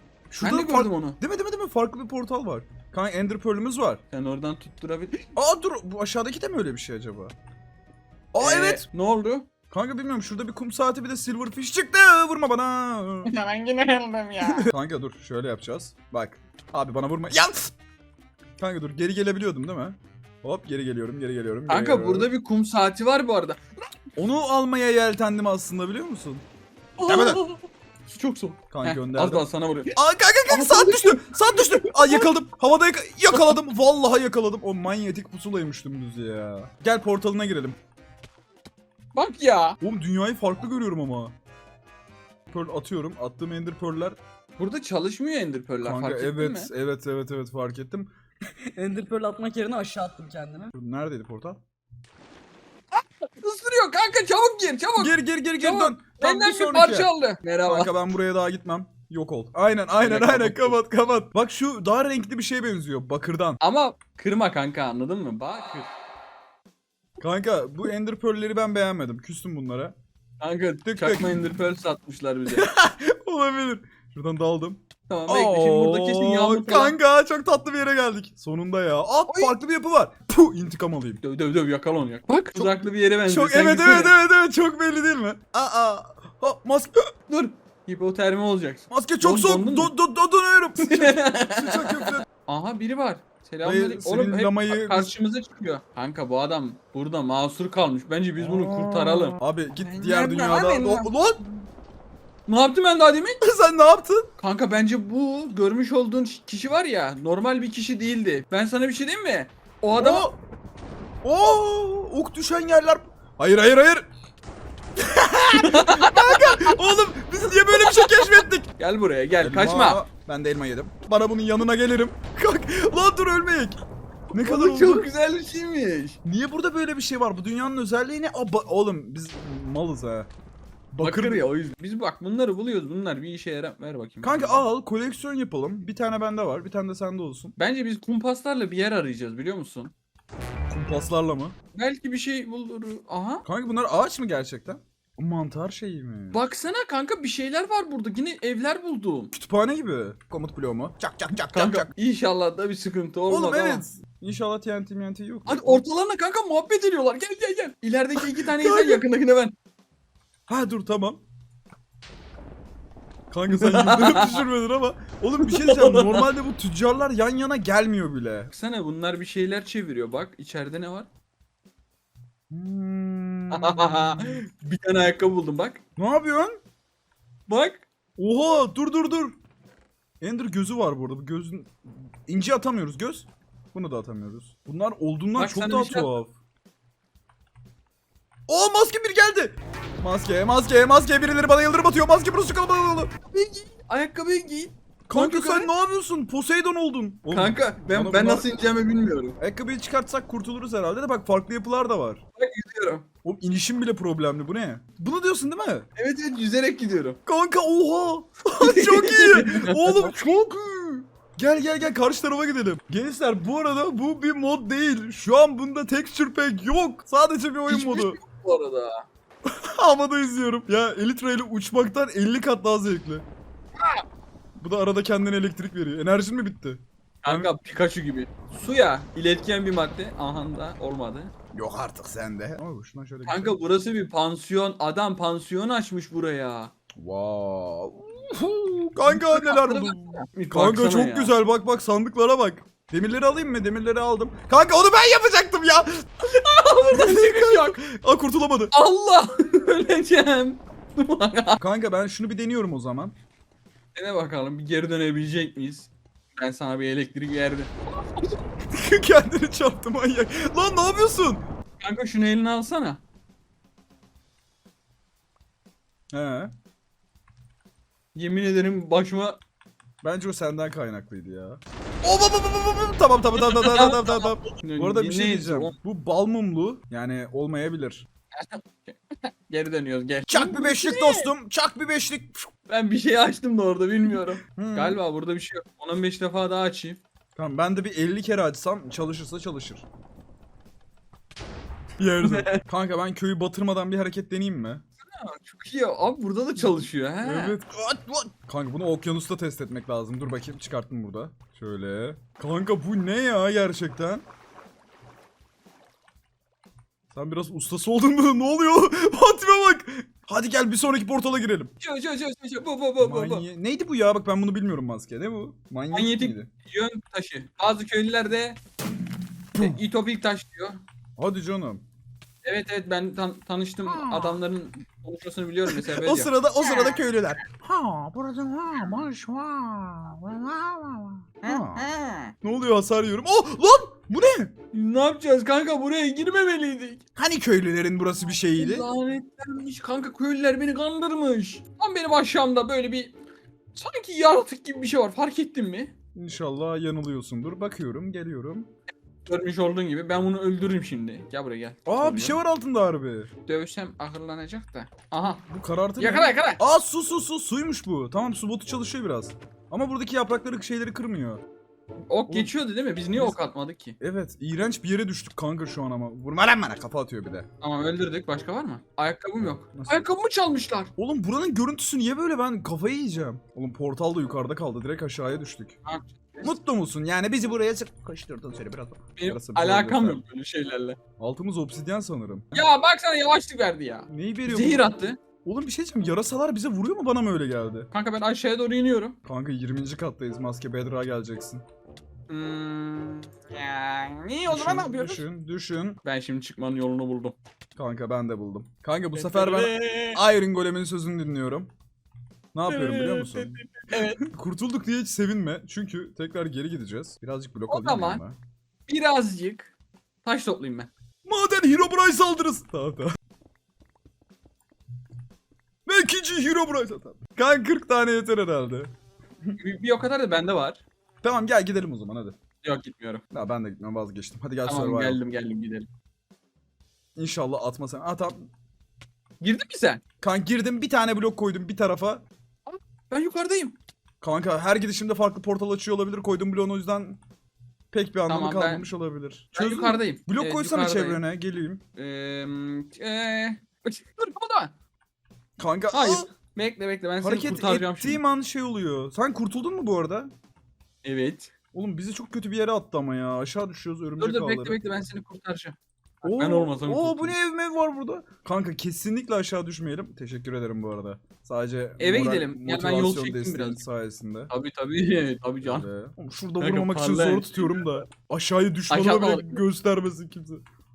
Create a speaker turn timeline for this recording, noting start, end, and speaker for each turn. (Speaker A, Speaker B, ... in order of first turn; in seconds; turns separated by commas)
Speaker A: 0.3-4.0, Speaker B: 0.4-1.2, Speaker B: 4.1-5.3, Speaker A: 5.4-7.3, Speaker A: 8.3-8.8, Speaker B: 8.4-9.5, Speaker A: 9.7-13.3, Speaker B: 13.3-14.7, Speaker A: 14.4-17.7, Speaker A: 18.6-22.3, Speaker B: 21.7-23.6, Speaker A: 24.2-26.4, Speaker B: 27.0-30.0, Speaker A: 27.1-27.4, Speaker A: 28.7-37.8, Speaker B: 30.5-32.3, Speaker B: 39.1-39.8, Speaker A: 39.8-41.4, Speaker A: 42.5-44.2, Speaker B: 44.6-46.7, Speaker A: 45.8-48.1, Speaker C: 48.7-50.7, Speaker A: 50.7-51.6, Speaker B: 52.9-57.9, Speaker A: 55.0-57.1, Speaker A: 57.7-63.6, Speaker B: 60.0-60.8, Speaker B: 63.6-65.9, Speaker A: 67.2-69.9, Speaker B: 70.4-72.7, Speaker A: 70.9-71.3, Speaker A: 72.5-81.2, Speaker B: 75.1-77.0, Speaker B: 79.3-79.5, Speaker B: 81.2-84.2, Speaker A: 82.5-87.1, Speaker B: 87.3-90.0, Speaker A: 88.9-92.2, Speaker B: 90.8-101.1, Speaker A: 93.6-95.1, Speaker A: 98.4-101.4, Speaker B: 102.5-103.4, Speaker A: 103.4-104.3, Speaker B: 104.4-110.3, Speaker A: 109.9-110.4, Speaker A: 111.2-114.1, Speaker A: 115.0-118.7, Speaker B: 115.5-116.9, Speaker B: 117.7-120.0, Speaker A: 119.4-123.8, Speaker A: 124.3-125.1, Speaker B: 124.3-126.2, Speaker A: 126.2-130.3, Speaker A: 130.9-131.5, Speaker B: 131.0-134.7, Speaker A: 134.2-137.5, Speaker B: 137.6-139.9, Speaker A: 140.7-141.6, Speaker B: 141.8-143.4, Speaker A: 143.4-146.4, Speaker B: 146.3-149.3, Speaker A: 149.3-151.9, Speaker B: 151.3-153.8, Speaker A: 153.3-155.8, Speaker B: 155.5-159.5, Speaker A: 158.2-159.0, Speaker A: 160.5-161.2, Speaker A: 163.3-168.5, Speaker B: 163.5-164.5, Speaker B: 165.4-166.3, Speaker B: 168.5-171.1, Speaker A: 172.5-174.4, Speaker B: 173.5-175.8, Speaker A: 176.0-176.6, Speaker B: 177.5-177.8, Speaker A: 178.2-179.4, Speaker A: 180.2-181.8, Speaker A: 182.3-186.3, Speaker B: 185.3-186.2, Speaker A: 188.5-193.1, Speaker B: 193.3-195.7, Speaker A: 195.1-198.5, Speaker B: 197.3-199.4, Speaker A: 199.4-202.2, Speaker B: 202.4-203.1, Speaker A: 203.2-205.9, Speaker B: 206.0-207.2, Speaker A: 207.3-218.2, Speaker B: 208.6-210.1, Speaker B: 217.7-219.1, Speaker A: 219.5-223.2, Speaker A: 224.6-227.5, Speaker B: 227.2-231.3, Speaker A: 231.5-233.6, Speaker B: 233.3-236.7, Speaker A: 237.0-246.1, Speaker B: 239.1-241.3, Speaker B: 246.2-247.8, Speaker A: 246.9-248.7, Speaker B: 248.7-251.6, Speaker A: 251.6-253.1, Speaker B: 253.9-258.4, Speaker A: 258.7-261.4, Speaker B: 261.8-263.0, Speaker A: 266.1-266.5, Speaker B: 268.1-269.4, Speaker A: 270.0-278.1, Speaker B: 273.4-275.8, Speaker B: 278.3-281.3, Speaker A: 280.3-282.5, Speaker B: 282.7-287.0, Speaker A: 284.6-285.0, Speaker A: 287.4-289.9, Speaker A: 292.0-294.8, Speaker B: 292.2-292.6, Speaker B: 295.1-297.6, Speaker A: 296.6-304.2, Speaker A: 307.1-311.7, Speaker B: 311.8-313.4, Speaker A: 313.0-316.5, Speaker B: 315.9-318.6, Speaker A: 319.6-319.8, Speaker B: 319.6-320.8, Speaker A: 321.2-321.8, Speaker B: 322.4-327.0, Speaker A: 323.9-324.4, Speaker A: 325.7-331.9, Speaker B: 331.4-332.3, Speaker A: 332.4-334.5, Speaker B: 334.7-337.0, Speaker A: 337.2-338.9, Speaker B: 338.6-343.1, Speaker B: 343.8-345.9, Speaker A: 346.1-348.7, Speaker B: 349.3-352.4, Speaker A: 351.9-353.3, Speaker B: 353.5-355.4, Speaker A: 355.5-361.4, Speaker B: 356.0-356.6, Speaker B: 362.1-364.0, Speaker A: 363.1-363.4, Speaker A: 364.0-367.5, Speaker B: 367.6-370.9, Speaker A: 369.7-370.1, Speaker A: 371.0-375.8, Speaker B: 375.9-376.5, Speaker A: 376.4-380.2, Speaker B: 379.2-381.0, Speaker A: 381.2-382.7, Speaker B: 382.5-385.2, Speaker A: 384.1-384.9, Speaker A: 385.4-387.9, Speaker B: 387.9-389.2, Speaker A: 389.2-391.6, Speaker B: 392.3-395.3, Speaker A: 394.5-396.0, Speaker B: 396.1-397.4, Speaker A: 397.8-401.7, Speaker B: 399.1-400.2, Speaker A: 402.5-408.4, Speaker B: 402.7-404.2, Speaker B: 407.7-408.2, Speaker B: 408.9-409.7, Speaker B: 410.2-410.9, Speaker A: 411.3-413.1, Speaker A: 415.9-418.9, Speaker B: 419.6-420.8, Speaker A: 421.2-422.4, Speaker B: 422.6-423.2, Speaker A: 423.3-425.2, Speaker B: 424.6-425.9, Speaker A: 427.2-428.5, Speaker B: 429.4-430.0, Speaker A: 430.2-432.2, Speaker B: 432.7-433.8, Speaker A: 434.2-437.2, Speaker A: 437.9-441.8, Speaker B: 438.3-438.9, Speaker B: 439.5-441.2, Speaker B: 442.0-444.7, Speaker A: 445.6-446.3, Speaker B: 445.9-448.2, Speaker A: 447.2-450.3, Speaker B: 451.0-451.5, Speaker A: 451.7-454.8, Speaker B: 454.2-457.4, Speaker A: 456.2-464.5, Speaker B: 462.0-463.8, Speaker B: 464.5-465.9, Speaker A: 465.6-470.6, Speaker B: 466.6-468.1, Speaker B: 468.9-469.6